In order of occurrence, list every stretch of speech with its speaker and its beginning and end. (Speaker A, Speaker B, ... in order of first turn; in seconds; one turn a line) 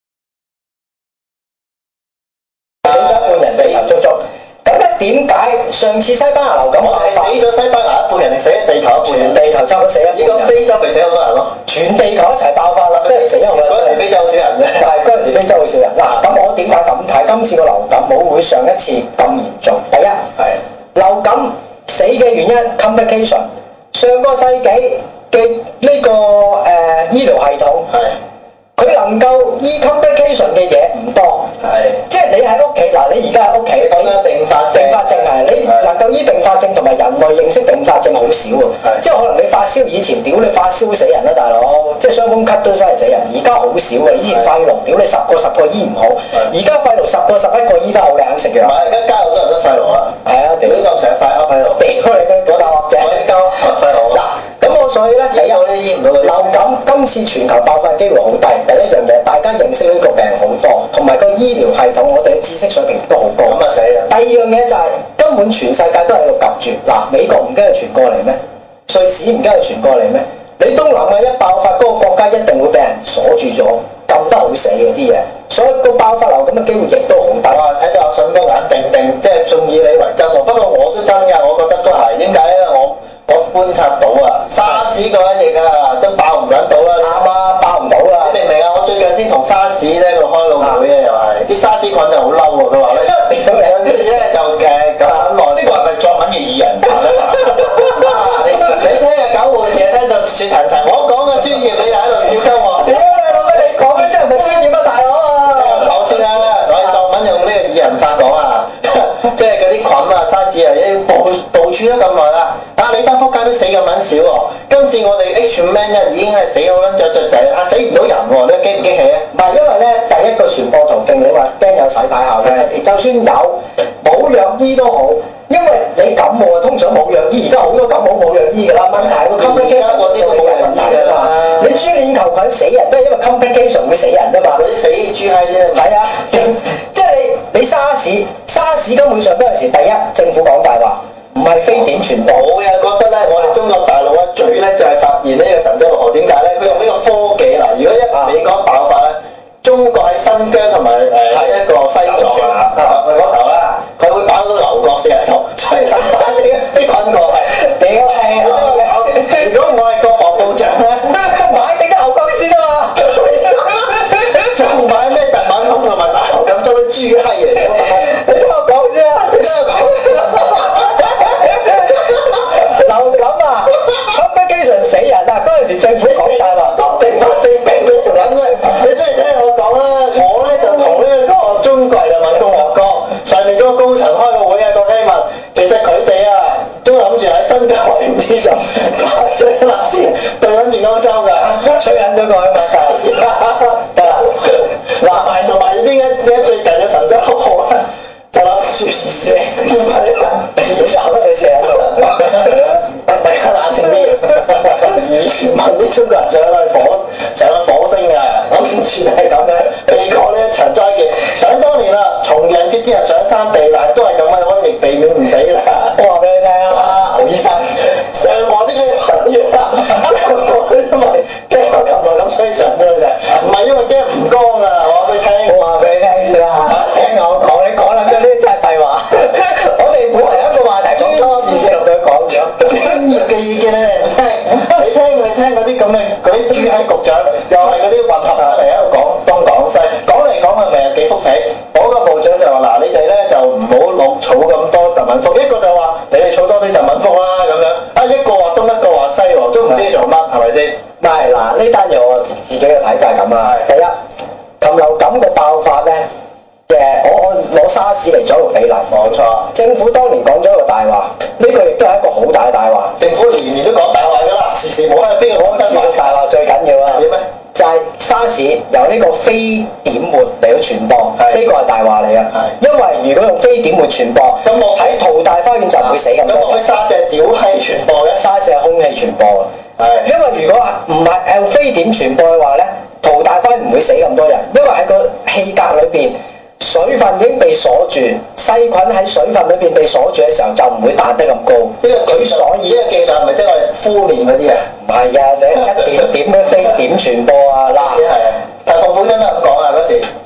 Speaker A: 2.9-4.0
Speaker B: 2.9-7.4
Speaker A: 6.8-9.4
Speaker B: 9.0-10.5
Speaker A: 10.1-11.6
Speaker B: 11.7-14.0
Speaker A: 12.9-14.9
Speaker B: 14.8-20.2
Speaker B: 20.9-27.9
Speaker A: 27.9-28.2
Speaker B: 28.8-31.5
Speaker A: 31.6-32.0
Speaker B: 32.1-34.2
Speaker A: 33.8-35.9
Speaker B: 34.7-48.8
Speaker A: 44.2-44.5
Speaker A: 48.6-51.9
Speaker B: 50.2-50.9
Speaker B: 51.8-53.2
Speaker A: 52.5-54.2
Speaker B: 54.1-55.6
Speaker A: 55.3-56.7
Speaker B: 56.2-77.6
Speaker A: 63.5-64.1
Speaker A: 77.5-87.2
Speaker B: 87.0-88.4
Speaker A: 88.2-95.8
Speaker B: 93.2-94.0
Speaker C: 95.2-98.2
Speaker A: 97.9-103.0
Speaker B: 102.8-106.0
Speaker A: 105.5-119.3
Speaker B: 119.3-134.6
Speaker A: 122.4-122.7
Speaker A: 128.9-131.9
Speaker A: 134.5-135.9
Speaker B: 135.8-142.5
Speaker A: 141.7-157.6
Speaker C: 152.3-152.7
Speaker B: 152.7-153.0
Speaker B: 156.1-156.7
Speaker B: 157.4-159.5
Speaker A: 158.2-161.4
Speaker B: 161.2-164.3
Speaker A: 164.3-168.1
Speaker B: 167.8-176.8
Speaker A: 169.3-171.5
Speaker A: 176.0-191.8
Speaker B: 191.5-193.2
Speaker A: 192.8-200.6
Speaker B: 193.9-195.3
Speaker B: 200.6-202.7
Speaker A: 202.4-216.0
Speaker B: 216.0-217.8
Speaker A: 217.8-225.6
Speaker B: 225.5-232.8
Speaker A: 230.2-231.3
Speaker A: 232.6-250.8
Speaker B: 251.0-253.9
Speaker A: 253.4-253.7
Speaker B: 254.6-256.1
Speaker B: 256.7-258.9
Speaker A: 258.9-259.5
Speaker B: 259.5-263.0
Speaker A: 263.0-266.2
Speaker B: 265.4-276.6
Speaker A: 266.9-267.2
Speaker A: 274.4-275.0
Speaker A: 275.8-278.2
Speaker B: 278.2-279.5
Speaker A: 279.8-280.1
Speaker B: 280.0-292.8
Speaker A: 291.8-294.6
Speaker B: 294.8-298.0
Speaker A: 297.8-300.1